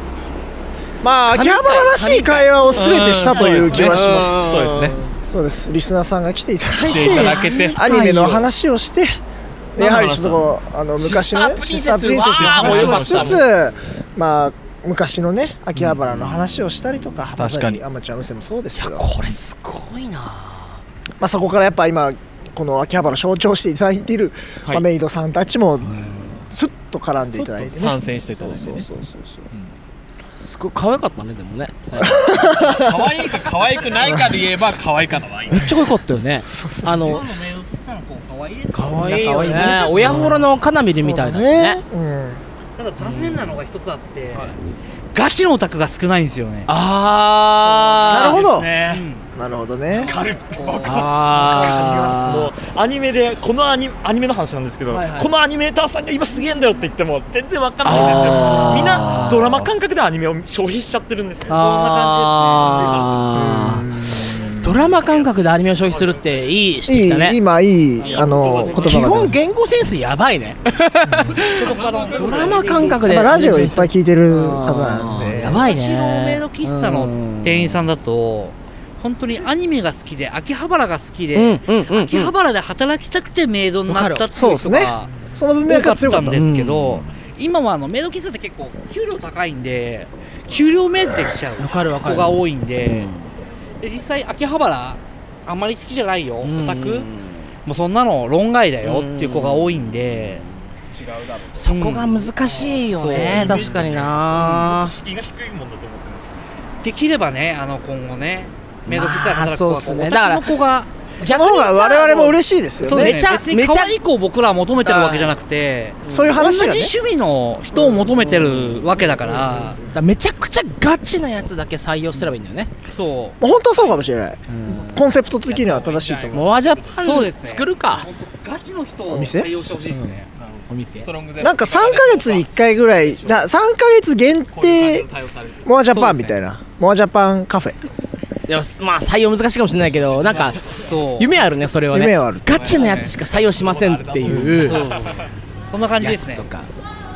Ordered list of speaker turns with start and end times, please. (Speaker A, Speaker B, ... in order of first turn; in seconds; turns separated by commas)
Speaker A: 1.0-4.5, Speaker B: 1.3-3.0, Speaker C: 2.8-5.0, Speaker B: 3.7-5.0, Speaker A: 5.2-9.2, Speaker C: 6.8-7.8, Speaker B: 6.9-8.5, Speaker A: 9.8-19.1, Speaker C: 9.8-10.4, Speaker B: 11.0-13.5, Speaker C: 12.2-13.4, Speaker C: 17.4-17.8, Speaker B: 18.8-20.8, Speaker A: 21.2-25.9, Speaker B: 25.8-26.4, Speaker A: 26.5-29.5, Speaker C: 27.2-28.8, Speaker B: 30.4-32.7, Speaker A: 32.0-32.7, Speaker C: 32.6-35.6, Speaker B: 35.5-37.2, Speaker A: 36.5-37.2, Speaker D: 37.0-40.2, Speaker B: 38.7-41.8, Speaker A: 39.8-42.4, Speaker D: 42.8-44.5, Speaker B: 43.0-43.6, Speaker D: 45.1-46.7, Speaker B: 46.7-48.5, Speaker A: 48.1-48.7, Speaker D: 48.1-49.2, Speaker E: 48.4-49.1, Speaker A: 49.3-50.1, Speaker E: 50.0-61.7, Speaker B: 50.8-52.5, Speaker B: 54.9-55.3, Speaker B: 57.8-59.5, Speaker A: 57.9-59.4, Speaker B: 61.5-63.9, Speaker D: 61.5-63.1, Speaker E: 62.7-63.0, Speaker A: 63.3-64.9, Speaker B: 64.6-67.4, Speaker E: 65.0-66.4, Speaker A: 66.9-69.4, Speaker E: 68.1-68.8, Speaker B: 68.4-77.8, Speaker D: 71.4-73.5, Speaker E: 71.6-72.2, Speaker A: 73.0-75.7, Speaker D: 75.5-85.1, Speaker B: 81.3-82.3, Speaker B: 83.9-84.2, Speaker A: 84.3-86.5, Speaker D: 85.6-93.1, Speaker B: 86.3-87.0, Speaker B: 91.6-93.2, Speaker D: 93.8-97.1, Speaker B: 96.4-97.2, Speaker D: 97.6-100.4, Speaker B: 98.8-100.3, Speaker C: 100.9-101.7, Speaker B: 101.5-104.9, Speaker D: 101.7-102.3, Speaker D: 102.9-103.8, Speaker E: 103.3-106.5, Speaker D: 106.8-110.9, Speaker B: 108.8-110.5, Speaker A: 111.2-113.2, Speaker B: 111.2-113.9, Speaker D: 112.8-119.8, Speaker B: 114.8-115.3, Speaker B: 116.0-116.4, Speaker A: 116.1-117.0, Speaker A: 117.8-118.1, Speaker B: 118.1-118.9, Speaker A: 119.0-120.0, Speaker B: 119.9-122.7, Speaker D: 122.9-123.4, Speaker A: 123.4-126.6, Speaker B: 124.5-125.0, Speaker D: 125.4-126.3, Speaker C: 125.7-126.2, Speaker B: 126.3-128.1, Speaker D: 126.8-130.3, Speaker A: 129.1-129.5, Speaker C: 130.4-133.5, Speaker B: 130.7-131.1, Speaker A: 131.4-135.1, Speaker C: 134.5-135.8, Speaker A: 135.6-137.8, Speaker D: 135.8-136.4, Speaker B: 138.5-140.6, Speaker C: 139.9-141.0, Speaker D: 140.7-141.3, Speaker B: 141.2-144.9, Speaker A: 141.9-142.6, Speaker C: 142.5-145.1, Speaker D: 142.7-143.1, Speaker A: 144.3-144.6, Speaker D: 144.6-145.1, Speaker D: 145.7-146.5, Speaker B: 146.0-146.7